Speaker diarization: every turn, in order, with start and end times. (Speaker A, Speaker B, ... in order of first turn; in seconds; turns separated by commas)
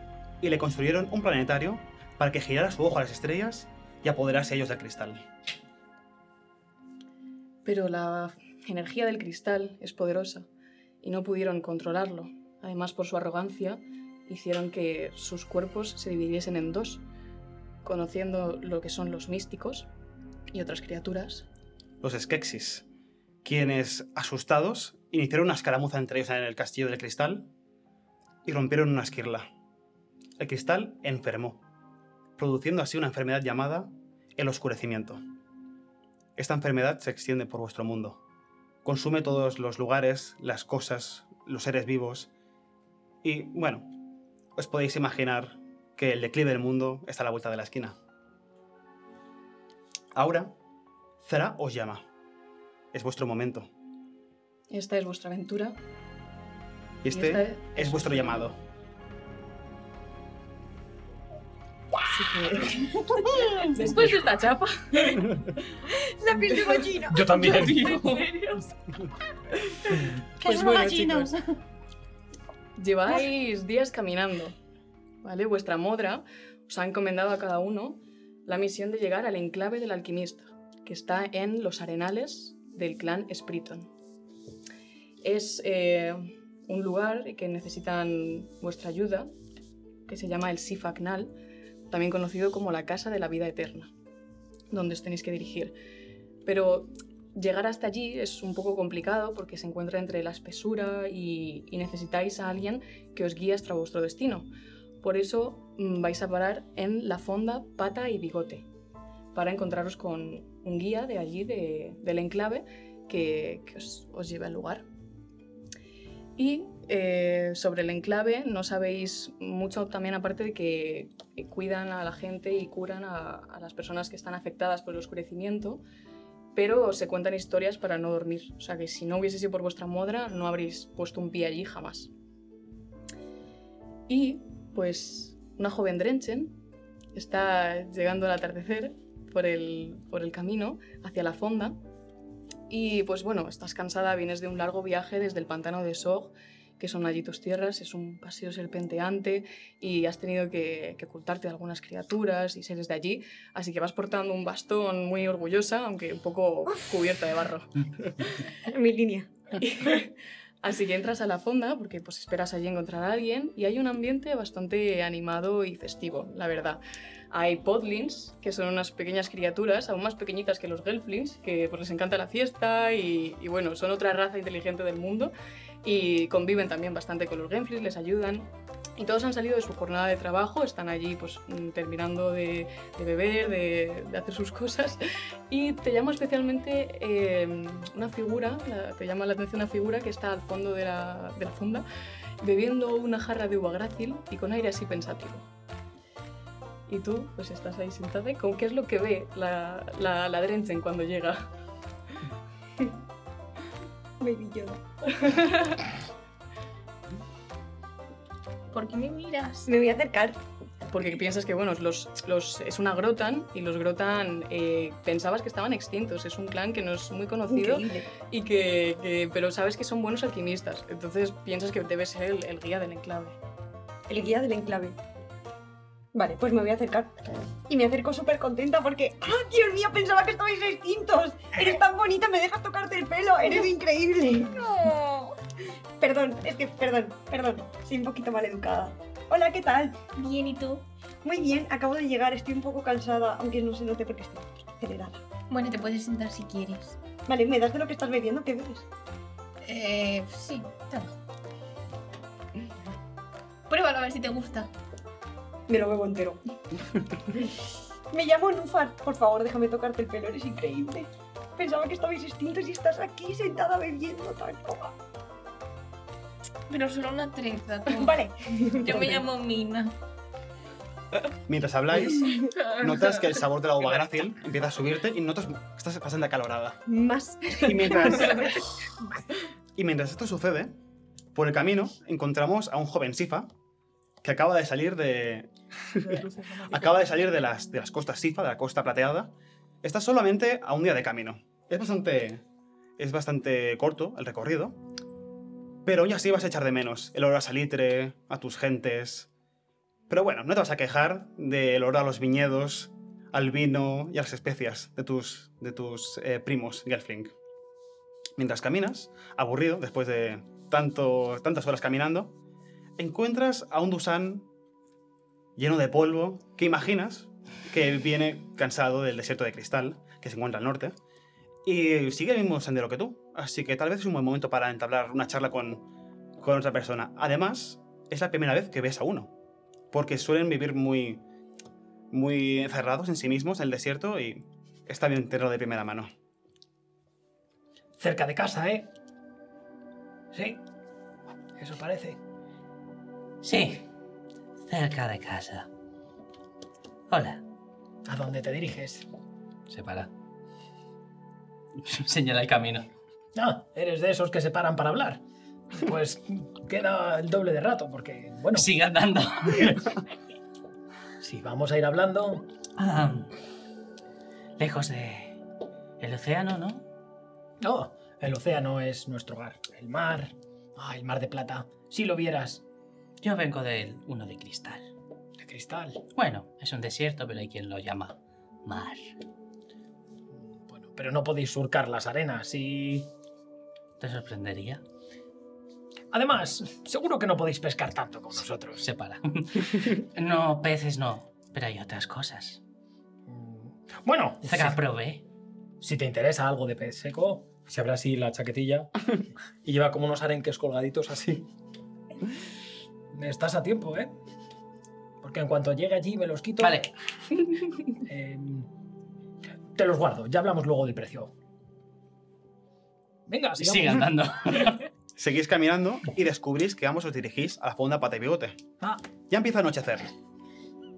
Speaker A: 0.4-5.3, Speaker B: 7.6-10.5, Speaker B: 11.0-17.0, Speaker B: 17.8-19.9, Speaker B: 20.5-21.5, Speaker A: 22.0-22.9, Speaker A: 23.4-27.5, Speaker A: 28.4-29.5, Speaker A: 30.4-31.6, Speaker A: 32.4-35.2, Speaker A: 36.4-38.2, Speaker A: 38.8-42.3, Speaker A: 43.2-44.0, Speaker A: 44.5-47.9, Speaker A: 50.1-50.5, Speaker A: 51.2-52.0, Speaker A: 52.9-53.7, Speaker B: 54.7-55.8, Speaker A: 57.0-58.6, Speaker B: 57.1-58.5, Speaker B: 62.1-62.9, Speaker C: 63.1-64.5, Speaker D: 63.4-63.7, Speaker B: 63.6-65.3, Speaker E: 66.0-67.3, Speaker F: 67.1-68.1, Speaker C: 67.3-68.7, Speaker D: 70.4-71.4, Speaker B: 70.4-71.3, Speaker B: 72.8-74.5, Speaker B: 75.2-83.9, Speaker B: 85.2-89.3, Speaker B: 90.1-91.3, Speaker B: 91.9-93.9, Speaker B: 94.7-95.8, Speaker B: 96.4-104.5, Speaker B: 105.0-108.7, Speaker B: 109.3-114.8, Speaker B: 116.3-125.8, Speaker B: 126.5-132.1, Speaker B: 134.1-136.6, Speaker B: 137.1-141.8, Speaker B: 142.7-157.7, Speaker E: 158.6-159.3, Speaker B: 159.6-191.8, Speaker B: 192.4-195.4, Speaker B: 196.9-201.5, Speaker E: 204.2-204.8, Speaker B: 205.2-205.7, Speaker C: 208.7-209.7, Speaker E: 209.6-210.4, Speaker B: 210.9-223.4, Speaker E: 217.5-218.1, Speaker E: 224.1-225.0, Speaker E: 226.1-234.6, Speaker C: 234.5-235.3, Speaker E: 236.0-240.0, Speaker C: 240.1-240.8, Speaker E: 241.2-245.2, Speaker C: 245.5-247.0, Speaker E: 247.3-248.9, Speaker C: 249.6-251.2, Speaker C: 253.7-254.7, Speaker E: 255.7-256.4, Speaker E: 258.1-264.9, Speaker C: 266.7-269.9, Speaker E: 267.9-269.2, Speaker A: 271.5-276.8, Speaker C: 272.4-273.4, Speaker E: 276.9-278.5, Speaker A: 277.6-278.7, Speaker A: 279.8-280.7, Speaker A: 281.3-283.5, Speaker A: 284.2-292.4, Speaker A: 293.0-294.8, Speaker A: 295.8-299.3, Speaker A: 300.1-307.3, Speaker A: 308.4-312.3, Speaker A: 313.0-314.5, Speaker A: 315.6-321.0, Speaker A: 321.6-325.8, Speaker A: 326.4-329.3, Speaker A: 329.9-331.2, Speaker A: 332.1-336.1, Speaker F: 338.0-338.9, Speaker F: 340.3-340.6, Speaker F: 341.6-342.2, Speaker D: 343.4-343.9, Speaker D: 344.6-345.7, Speaker D: 347.1-347.4, Speaker F: 348.0-349.1, Speaker D: 349.7-350.1, Speaker D: 351.8-352.9, Speaker F: 353.3-358.7, Speaker D: 358.5-359.9, Speaker F: 359.4-359.8, Speaker F: 361.2-362.5, Speaker D: 362.8-363.3, Speaker D: 364.6-365.4, Speaker D: 366.0-366.8, Speaker F: 367.6-372.6, Speaker D: 373.2-374.9, Speaker F: 375.4-376.1, Speaker D: 376.1-379.1, Speaker F: 380.3-383.1, Speaker D: 384.0-384.8, Speaker F: 386.1-388.9, Speaker D: 388.8-392.6, Speaker F: 393.3-394.8, Speaker D: 394.4-395.2, Speaker F: 395.8-399.0, Speaker F: 399.6-401.5, Speaker F: 403.1-404.1, Speaker F: 405.2-406.9, Speaker D: 406.6-406.9, Speaker F: 407.9-408.7, Speaker F: 409.7-411.3, Speaker F: 413.3-414.2, Speaker D: 413.6-414.9, Speaker A: 415.1-418.6, Speaker A: 419.3-420.1